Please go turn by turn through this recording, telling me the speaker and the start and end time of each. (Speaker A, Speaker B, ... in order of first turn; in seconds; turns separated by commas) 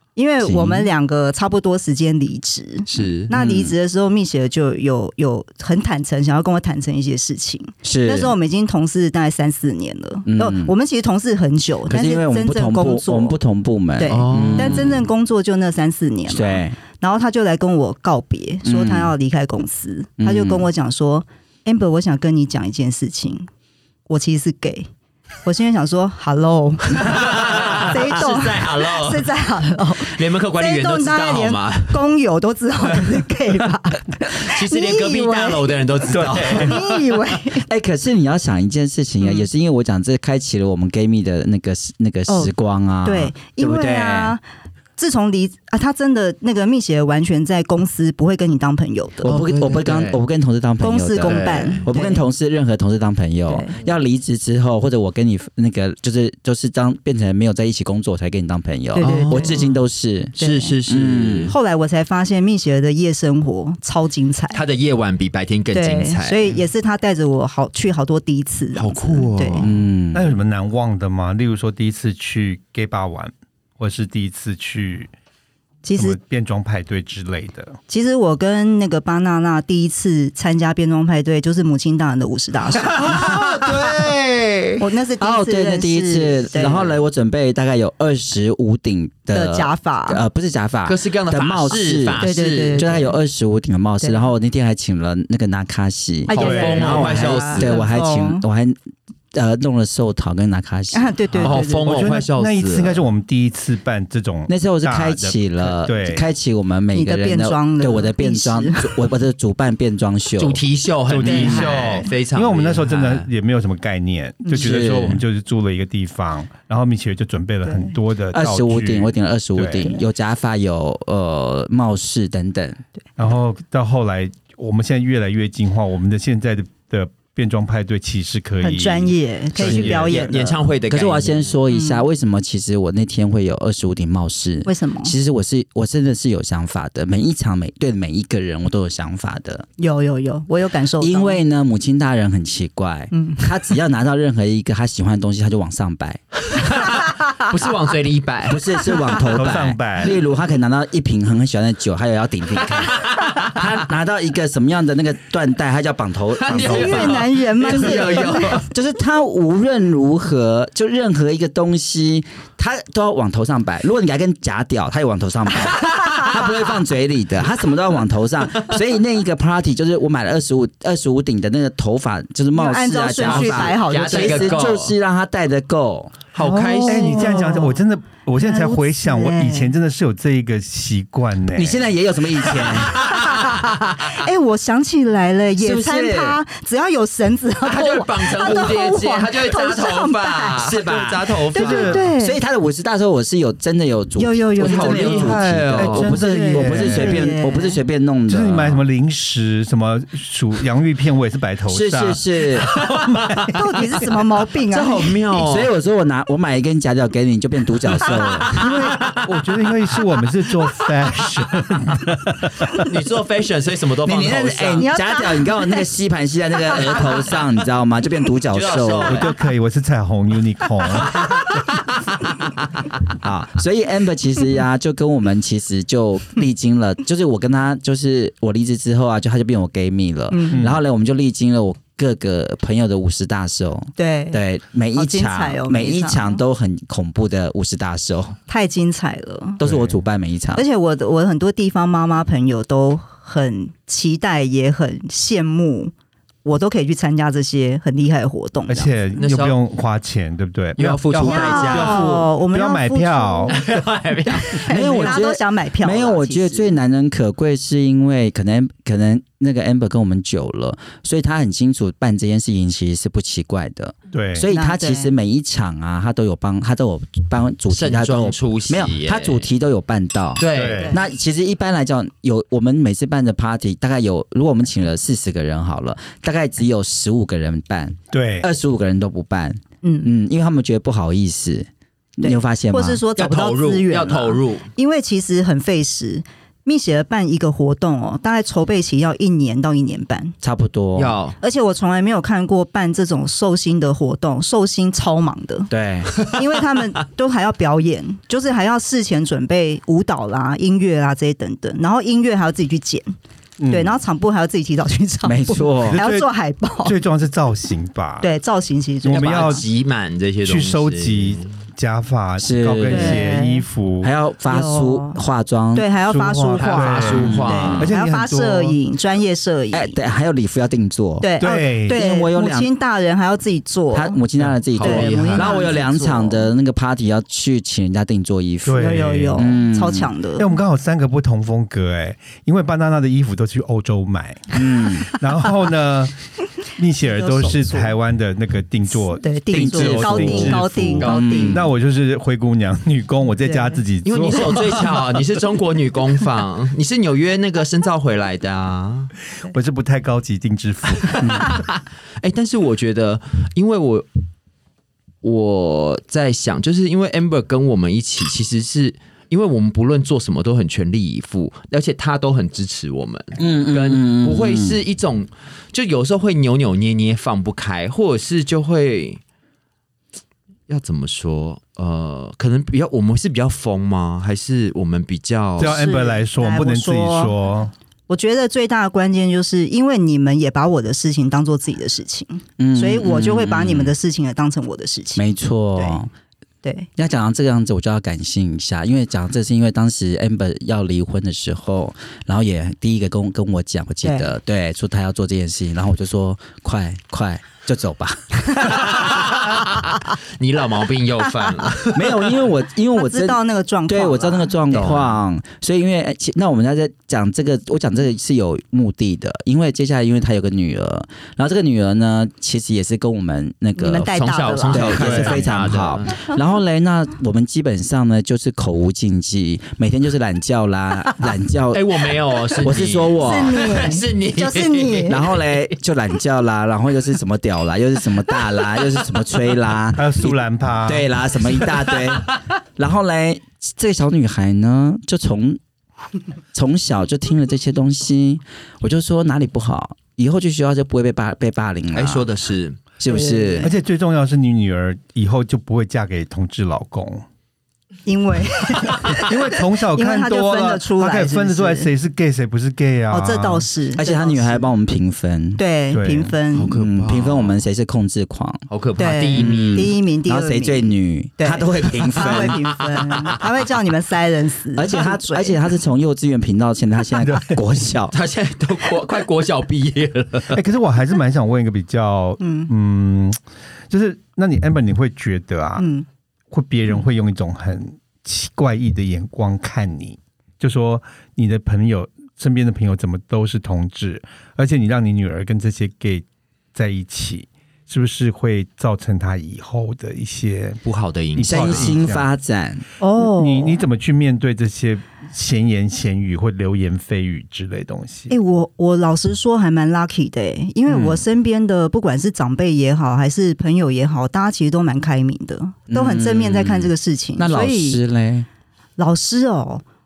Speaker A: 0.2-13.4, Speaker B: 0.4-0.9, Speaker C: 2.9-3.3, Speaker B: 3.3-3.7, Speaker B: 7.8-8.3, Speaker B: 10.3-10.7, Speaker B: 11.9-15.0, Speaker A: 14.0-23.5, Speaker C: 14.1-15.0, Speaker B: 16.3-16.8, Speaker B: 18.6-19.1, Speaker B: 20.2-20.7, Speaker A: 24.1-24.9, Speaker A: 25.4-35.8, Speaker C: 26.9-29.3, Speaker C: 30.0-32.0, Speaker C: 34.4-36.9, Speaker D: 36.1-36.8, Speaker A: 36.5-37.7, Speaker B: 37.7-44.4, Speaker A: 42.3-42.5, Speaker A: 43.0-44.4, Speaker A: 45.0-49.4, Speaker B: 49.2-61.5, Speaker C: 49.2-50.2, Speaker A: 50.8-52.2, Speaker C: 51.2-51.9, Speaker A: 53.5-53.8, Speaker A: 59.0-59.7, Speaker C: 59.0-59.8, Speaker C: 60.4-61.5, Speaker A: 60.4-60.8, Speaker A: 61.5-64.6, Speaker C: 64.5-66.6, Speaker A: 65.7-69.7, Speaker C: 68.8-69.8, Speaker B: 69.6-70.3, Speaker D: 70.1-75.1, Speaker A: 75.8-76.2, Speaker D: 76.0-77.8, Speaker A: 77.9-83.2, Speaker D: 83.3-84.7, Speaker A: 84.8-86.9, Speaker B: 85.2-98.8, Speaker A: 89.3-90.2, Speaker C: 90.9-93.0, Speaker A: 92.2-93.2, Speaker A: 94.0-94.3, Speaker A: 96.3-98.4, Speaker C: 96.3-97.8, Speaker D: 96.4-97.1, Speaker B: 99.3-101.5, Speaker A: 100.9-101.9, Speaker C: 101.4-103.1, Speaker D: 101.8-106.2, Speaker B: 104.5-110.6, Speaker A: 106.9-109.0, Speaker C: 110.4-113.3, Speaker D: 111.1-120.0, Speaker B: 111.2-111.9, Speaker A: 114.5-114.7, Speaker B: 114.5-115.2, Speaker A: 117.7-117.9, Speaker B: 118.3-122.8, Speaker D: 123.2-130.3, Speaker A: 128.6-130.6, Speaker C: 129.6-131.6, Speaker B: 129.7-129.9, Speaker B: 130.9-139.7, Speaker A: 131.7-132.1, Speaker A: 134.7-135.2, Speaker A: 139.8-141.4, Speaker B: 141.0-146.2, Speaker A: 143.1-143.5, Speaker C: 146.5-149.0, Speaker B: 148.5-176.2, Speaker D: 149.2-150.2, Speaker C: 153.0-153.7, Speaker C: 156.4-158.7, Speaker A: 156.5-158.7, Speaker A: 172.5-174.6, Speaker C: 173.2-174.9, Speaker C: 176.3-177.5, Speaker A: 176.4-177.8, Speaker D: 176.9-181.9, Speaker A: 178.4-179.7, Speaker B: 181.5-183.4, Speaker C: 182.7-183.2, Speaker A: 182.9-190.7, Speaker B: 185.6-186.4, Speaker C: 187.7-192.0, Speaker B: 190.6-198.8, Speaker A: 191.5-192.4, Speaker D: 191.6-192.0, Speaker A: 194.2-195.3, Speaker C: 194.6-196.2, Speaker D: 195.0-197.3, Speaker A: 196.1-197.8, Speaker D: 198.3-203.6, Speaker B: 201.7-202.7, Speaker C: 202.7-203.4, Speaker A: 203.5-205.2, Speaker C: 204.7-205.7, Speaker B: 205.3-208.6, Speaker C: 208.2-209.3, Speaker D: 208.6-212.9, Speaker C: 212.7-214.9, Speaker B: 214.1-219.3, Speaker A: 214.8-215.9, Speaker A: 216.6-217.0, Speaker C: 218.5-219.3, Speaker D: 219.1-221.6, Speaker B: 223.2-238.4, Speaker A: 230.3-230.7, Speaker A: 234.0-234.4, Speaker A: 234.9-236.4, Speaker A: 238.5-239.6, Speaker B: 239.6-240.6, Speaker D: 239.6-240.0, Speaker A: 240.5-245.9, Speaker A: 246.4-248.9, Speaker D: 248.7-253.6, Speaker C: 249.2-249.6, Speaker C: 250.8-252.2, Speaker A: 251.2-253.7, Speaker C: 253.5-255.2, Speaker A: 254.3-256.7, Speaker B: 254.7-283.0, Speaker D: 264.1-264.5, Speaker A: 264.5-265.1, Speaker C: 267.7-269.5, Speaker C: 270.4-270.9, Speaker D: 270.5-271.0, Speaker D: 278.1-278.5, Speaker A: 279.8-280.1, Speaker A: 282.2-290.4, Speaker C: 283.2-284.7, Speaker B: 290.4-291.2, Speaker C: 291.0-291.4, Speaker A: 291.4-295.7, Speaker B: 295.7-296.2, Speaker A: 296.2-303.1, Speaker D: 303.6-303.9, Speaker A: 303.7-306.9, Speaker B: 305.2-306.0, Speaker D: 305.9-306.3, Speaker D: 306.8-308.3, Speaker A: 308.2-309.6, Speaker D: 309.0-309.6, Speaker C: 309.1-311.6, Speaker D: 310.4-314.1, Speaker B: 312.4-313.3, Speaker A: 312.9-313.6, Speaker B: 314.0-315.9, Speaker A: 314.5-315.2, Speaker A: 315.7-320.0, Speaker D: 316.1-318.8, Speaker C: 316.6-317.9, Speaker B: 317.1-317.9, Speaker B: 319.7-321.3, Speaker A: 321.2-324.2, Speaker D: 321.4-322.0, Speaker B: 321.9-322.7, Speaker B: 323.9-330.1, Speaker C: 324.7-325.7, Speaker A: 324.8-326.5, Speaker D: 328.6-329.5, Speaker A: 328.8-330.5, Speaker D: 330.4-345.2, Speaker B: 334.6-335.1, Speaker A: 337.0-337.9, Speaker A: 338.9-341.6, Speaker B: 339.5-341.7, Speaker A: 343.4-343.8, Speaker C: 344.1-349.1, Speaker D: 349.4-351.6, Speaker B: 351.2-351.5, Speaker C: 351.2-354.1, Speaker C: 355.2-369.2, Speaker B: 363.4-364.8, Speaker C: 370.7-375.8, Speaker D: 375.6-377.7, Speaker A: 375.6-377.3, Speaker A: 378.1-386.0, Speaker B: 382.6-383.9, Speaker B: 385.2-386.1, Speaker A: 386.6-386.9, Speaker B: 387.0-399.1, Speaker A: 394.0-394.3, Speaker C: 398.6-402.5, Speaker B: 401.9-423.8, Speaker A: 402.9-404.9, Speaker C: 404.7-405.1, Speaker A: 413.8-415.4, Speaker C: 414.1-416.2, Speaker D: 415.0-415.4, Speaker C: 421.7-425.6, Speaker A: 423.2-425.3, Speaker B: 425.1-435.6, Speaker D: 429.9-431.1, Speaker C: 431.7-432.4, Speaker B: 436.5-442.3, Speaker C: 441.9-442.8, Speaker B: 443.0-443.7, Speaker A: 443.1-443.7, Speaker D: 443.6-447.2, Speaker A: 448.1-451.9, Speaker D: 449.0-453.7, Speaker A: 453.1-454.7, Speaker B: 454.0-455.6, Speaker A: 455.6-456.8, Speaker D: 455.9-456.3, Speaker C: 456.5-457.6, Speaker B: 456.7-458.6, Speaker C: 458.7-459.9, Speaker A: 459.0-465.6, Speaker B: 459.4-462.8, Speaker B: 464.8-468.1, Speaker D: 467.2-467.6, Speaker C: 468.1-470.6, Speaker D: 470.5-473.4, Speaker A: 472.4-472.7, Speaker D: 473.9-475.9, Speaker A: 475.8-476.1, Speaker D: 476.5-490.8, Speaker C: 490.8-492.0, Speaker D: 491.4-492.3, Speaker B: 491.5-492.9, Speaker A: 493.0-493.8, Speaker D: 493.2-498.3, Speaker A: 498.3-508.0, Speaker B: 505.9-508.5, Speaker A: 509.0-509.8